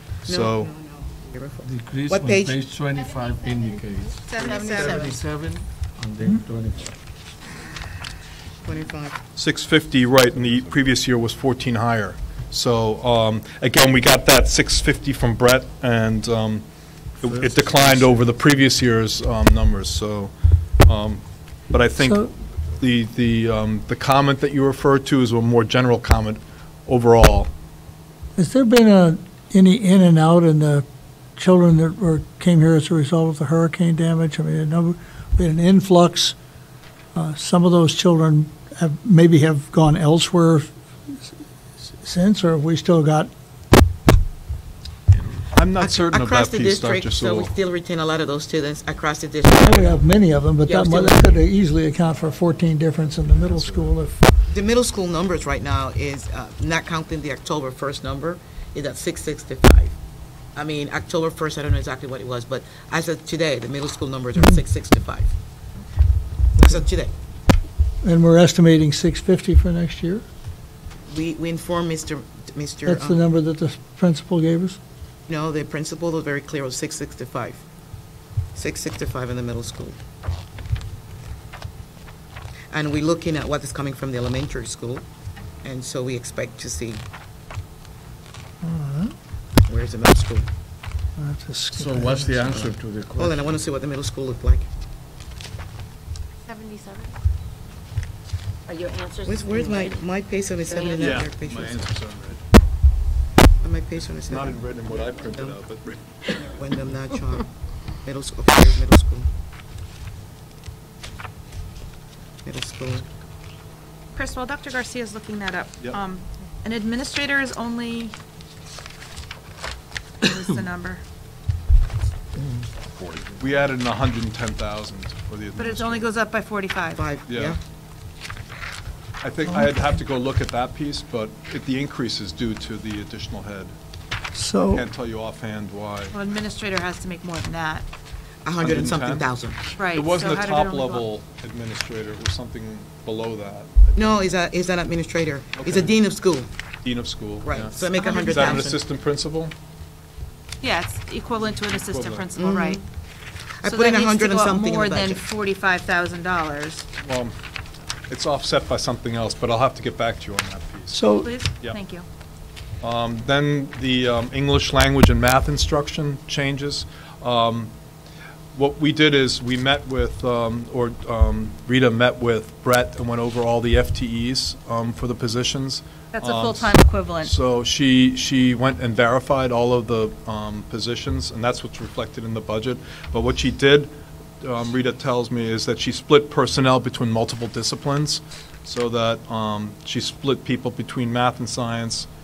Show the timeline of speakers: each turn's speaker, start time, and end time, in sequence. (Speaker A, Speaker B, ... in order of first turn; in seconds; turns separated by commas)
Speaker A: 0.2-0.7, Speaker B: 0.2-2.6, Speaker C: 1.6-7.0, Speaker D: 4.3-5.0, Speaker B: 4.4-5.2, Speaker B: 8.6-9.2, Speaker A: 9.4-16.6, Speaker A: 17.2-20.3, Speaker A: 20.9-27.5, Speaker E: 22.0-22.3, Speaker E: 28.4-30.9, Speaker E: 31.4-36.4, Speaker E: 37.1-40.7, Speaker E: 42.0-43.3, Speaker A: 45.5-47.5, Speaker B: 45.8-50.1, Speaker E: 49.6-54.3, Speaker B: 50.6-51.3, Speaker B: 54.5-60.0, Speaker B: 60.6-65.3, Speaker E: 64.4-64.6, Speaker B: 66.6-67.1, Speaker E: 68.0-70.2, Speaker B: 71.1-73.2, Speaker E: 72.9-74.8, Speaker B: 75.3-77.6, Speaker B: 78.5-80.0, Speaker B: 82.7-85.0, Speaker B: 85.6-87.0, Speaker E: 88.6-89.1, Speaker B: 89.7-90.5, Speaker E: 91.2-92.6, Speaker C: 91.7-93.6, Speaker B: 93.2-94.7, Speaker D: 96.5-97.1, Speaker B: 99.2-101.9, Speaker D: 100.8-101.1, Speaker A: 100.9-102.4, Speaker B: 103.6-105.5, Speaker A: 104.2-106.0, Speaker B: 106.3-107.5, Speaker B: 108.0-109.3, Speaker B: 112.4-113.1, Speaker D: 114.1-118.2, Speaker D: 120.2-121.0, Speaker A: 123.1-126.1, Speaker D: 125.6-127.0, Speaker B: 127.0-127.6, Speaker A: 127.3-127.6, Speaker A: 129.2-133.7, Speaker E: 129.5-129.8, Speaker E: 134.3-134.9, Speaker A: 134.7-136.2, Speaker D: 136.1-137.8, Speaker B: 138.4-139.6, Speaker A: 138.6-139.3, Speaker D: 139.8-141.0, Speaker A: 139.9-144.2, Speaker B: 143.9-146.5, Speaker A: 145.6-145.9, Speaker A: 146.8-149.5, Speaker B: 147.4-148.8, Speaker D: 147.9-148.5, Speaker D: 150.6-152.8, Speaker A: 151.7-152.3, Speaker B: 152.3-152.8, Speaker B: 153.6-155.2, Speaker D: 153.7-156.9, Speaker A: 157.0-157.3, Speaker A: 158.1-161.0, Speaker E: 160.9-161.3, Speaker D: 161.2-162.1, Speaker A: 162.8-167.7, Speaker A: 168.6-183.9, Speaker D: 176.1-177.3, Speaker A: 184.4-192.1